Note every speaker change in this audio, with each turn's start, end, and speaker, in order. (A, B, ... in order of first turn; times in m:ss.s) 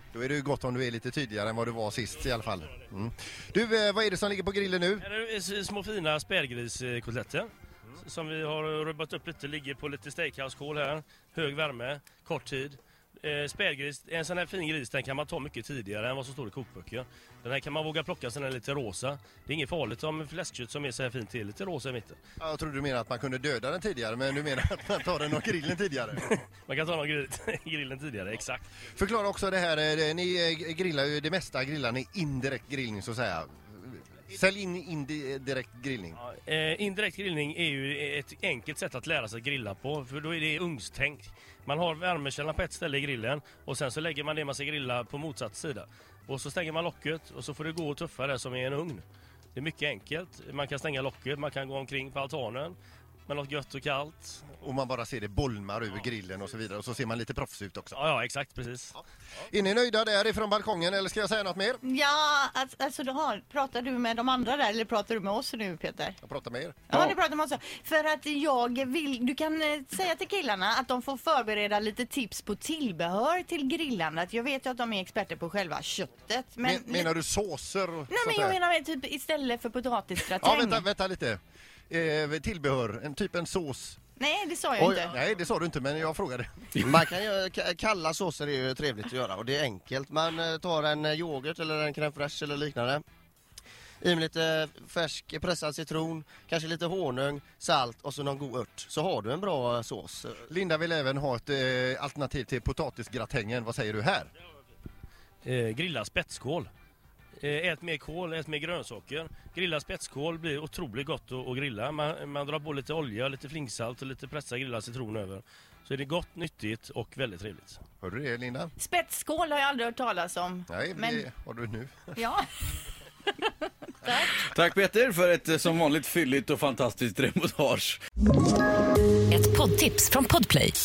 0:00.1-0:05.0 A
0:05.0-0:22.2 B
0:22.4-0:26.3 A
0:26.2-0:28.7 B
0:28.9-0:36.2 A
0:36.2-0:52.7 B
0:53.3-0:54.5 B
0:54.6-0:58.0 A
0:58.0-0:59.0 B
0:59.5-1:01.8 A
1:01.8-1:06.2 C
1:06.2-1:07.1 A
1:06.9-1:17.1 C
1:16.6-1:18.6 A
1:18.1-1:20.8 C
1:20.4-1:24.0 A
1:24.2-1:25.1 C
1:24.8-1:25.1 D
1:25.1-1:26.9 A
1:26.8-1:33.0 D
1:34.0-1:40.5 D
1:40.5-1:44.3 A
1:45.4-1:46.7 B
1:47.4-1:57.8 B
1:58.0-1:58.7 A
1:58.8-2:01.2 C
2:00.7-2:02.0 A
2:02.1-2:02.5 C
2:04.0-2:04.3 C
2:04.4-2:08.0 E
2:09.3-2:10.7 C